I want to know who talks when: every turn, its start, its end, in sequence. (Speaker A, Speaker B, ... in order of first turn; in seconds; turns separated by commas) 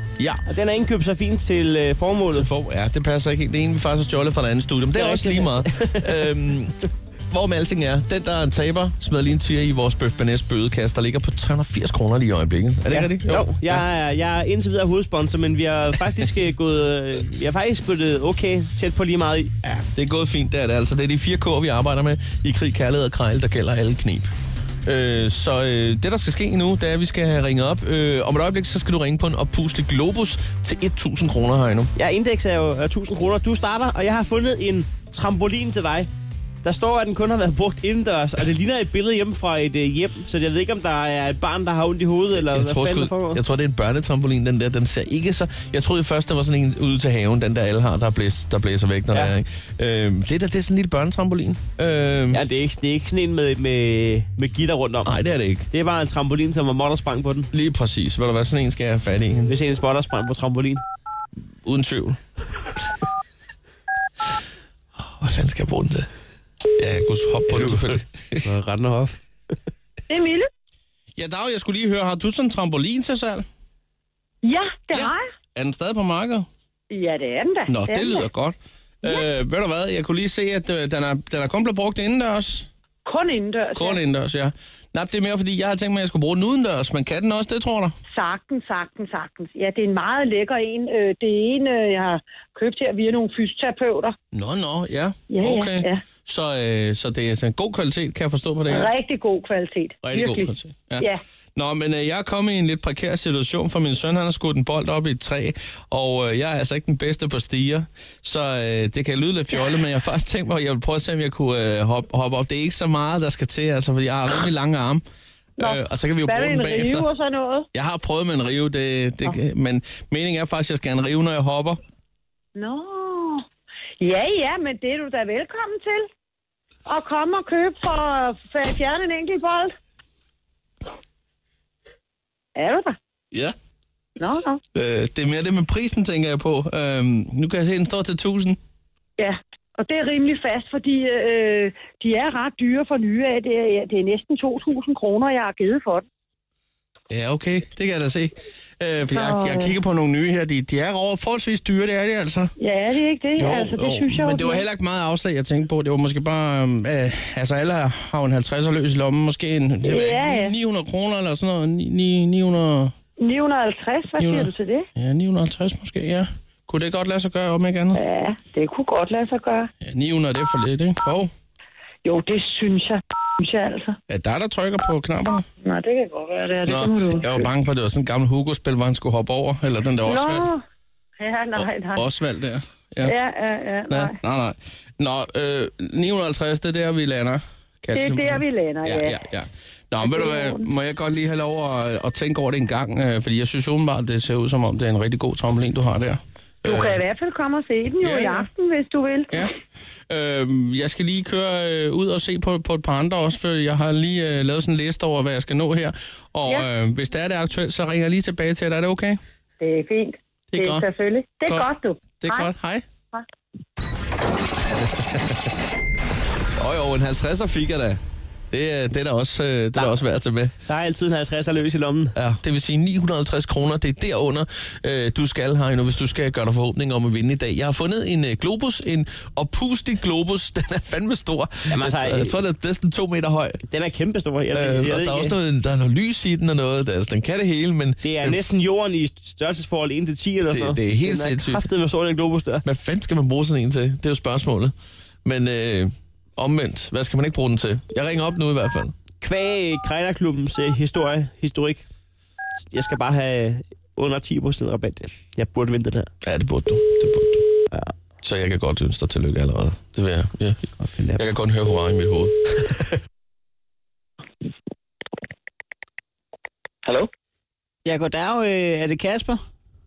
Speaker A: 0.5-2.5, Speaker B: 2.3-6.8, Speaker A: 4.9-6.2, Speaker B: 7.3-13.8, Speaker A: 12.9-19.5, Speaker B: 19.6-24.3, Speaker B: 24.8-31.9, Speaker A: 31.9-36.1, Speaker A: 36.6-43.4, Speaker B: 42.4-52.4, Speaker A: 52.3-55.1, Speaker B: 55.0-55.7, Speaker A: 55.7-57.5, Speaker B: 57.5-59.5, Speaker A: 59.5-60.8, Speaker B: 61.6-62.2, Speaker B: 65.2-66.1, Speaker B: 66.8-68.5, Speaker A: 67.5-67.8, Speaker A: 68.4-69.2, Speaker C: 70.1-70.5, Speaker B: 71.2-73.4, Speaker C: 74.4-75.2, Speaker B: 74.9-76.5, Speaker C: 76.9-78.3, Speaker B: 77.7-82.7, Speaker C: 83.0-84.0, Speaker B: 83.7-87.9, Speaker C: 88.1-94.2, Speaker B: 94.3-98.9, Speaker C: 95.3-96.0, Speaker C: 98.7-101.2, Speaker B: 100.0-115.0, Speaker C: 115.6-117.7, Speaker B: 115.6-117.1, Speaker B: 117.7-121.8, Speaker C: 122.5-123.4, Speaker C: 124.0-126.1, Speaker C: 126.8-129.7, Speaker C: 132.5-133.0, Speaker C: 134.2-134.6, Speaker B: 134.7-138.6, Speaker C: 139.2-146.0, Speaker B: 147.1-152.5, Speaker C: 149.1-149.8, Speaker C: 152.6-154.7, Speaker B: 153.4-162.9, Speaker C: 159.8-160.5, Speaker C: 163.2-164.9, Speaker B: 164.2-168.0, Speaker C: 167.9-169.7, Speaker B: 169.8-171.3, Speaker C: 172.0-174.0, Speaker B: 174.1-175.4, Speaker C: 175.6-177.5, Speaker B: 176.7-180.5, Speaker C: 180.0-180.6, Speaker C: 181.2-182.1, Speaker B: 181.5-183.1, Speaker C: 183.0-184.1, Speaker B: 183.9-197.0, Speaker C: 187.9-189.2, Speaker C: 190.0-190.7, Speaker C: 196.6-199.4, Speaker B: 198.0-198.5, Speaker B: 200.1-209.2, Speaker C: 209.6-212.5, Speaker B: 210.5-210.8, Speaker B: 212.2-212.8, Speaker B: 214.8-215.5, Speaker B: 216.6-218.0, Speaker B: 218.5-220.5, Speaker A: 220.7-222.1, Speaker B: 222.2-233.6, Speaker A: 231.7-232.4, Speaker A: 233.7-235.3, Speaker B: 234.5-238.5, Speaker A: 238.0-242.6, Speaker B: 240.5-241.7, Speaker B: 242.6-244.7, Speaker B: 245.2-248.9, Speaker A: 249.2-251.8, Speaker A: 252.6-256.1, Speaker B: 256.2-257.4, Speaker B: 258.2-262.8, Speaker A: 260.8-261.2, Speaker A: 267.8-269.4